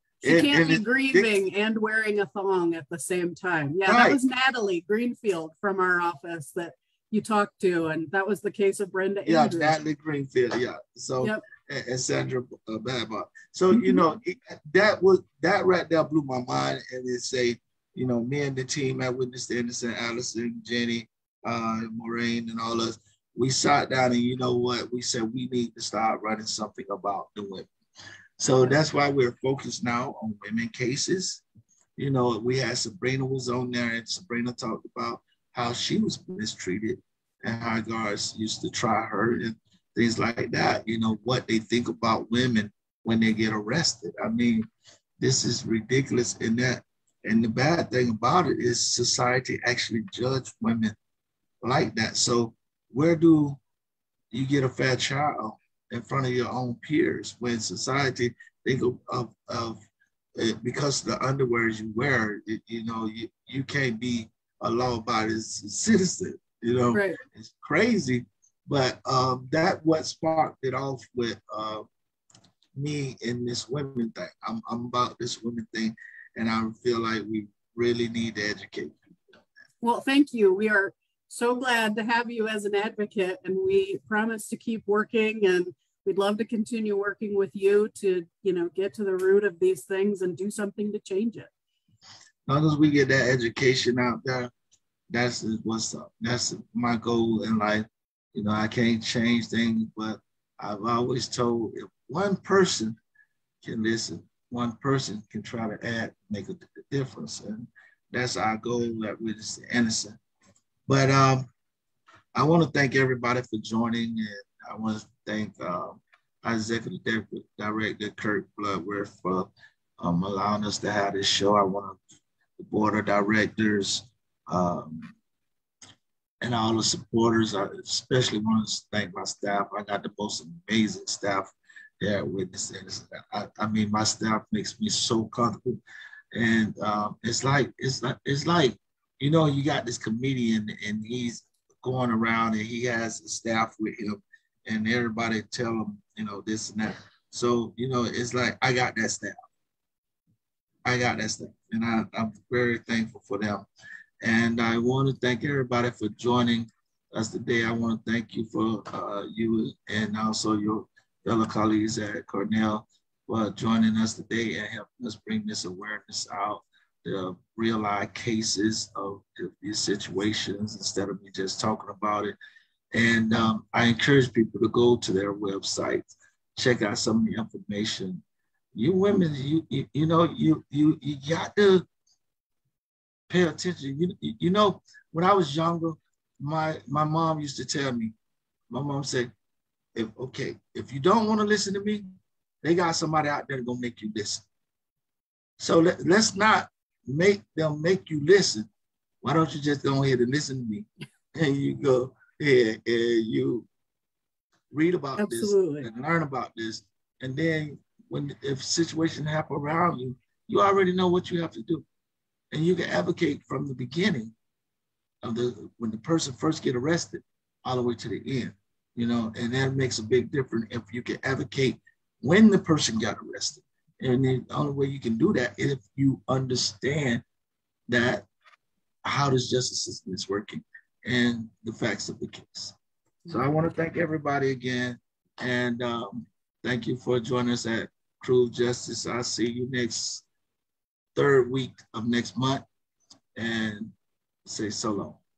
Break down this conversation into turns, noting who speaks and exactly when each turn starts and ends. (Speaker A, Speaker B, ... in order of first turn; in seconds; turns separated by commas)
Speaker A: 0.2-1.3, Speaker B: 0.2-9.7, Speaker A: 3.9-4.2, Speaker A: 9.2-27.7, Speaker B: 13.7-14.1, Speaker A: 28.4-31.4, Speaker A: 32.0-44.7, Speaker A: 45.2-50.9, Speaker A: 51.6-53.6, Speaker A: 54.3-59.8, Speaker A: 60.4-71.8, Speaker B: 66.9-67.2, Speaker A: 72.7-78.9, Speaker B: 79.8-91.5, Speaker A: 92.5-94.5, Speaker A: 95.1-103.0, Speaker A: 103.6-110.2, Speaker A: 110.9-111.5, Speaker A: 112.3-122.0, Speaker A: 122.6-125.1, Speaker A: 126.4-135.8, Speaker A: 136.3-149.4, Speaker A: 150.8-153.6, Speaker A: 154.2-172.3, Speaker A: 172.9-178.2, Speaker A: 178.7-181.8, Speaker A: 183.3-188.1, Speaker A: 188.7-189.3, Speaker A: 189.9-194.4, Speaker A: 195.6-198.7, Speaker A: 199.2-203.7, Speaker A: 204.7-211.8, Speaker B: 205.2-205.9, Speaker A: 212.5-214.3, Speaker A: 215.2-227.2, Speaker A: 227.9-228.3, Speaker A: 229.0-232.8, Speaker A: 233.3-240.2, Speaker A: 241.1-242.6, Speaker A: 243.3-243.9, Speaker A: 244.4-245.2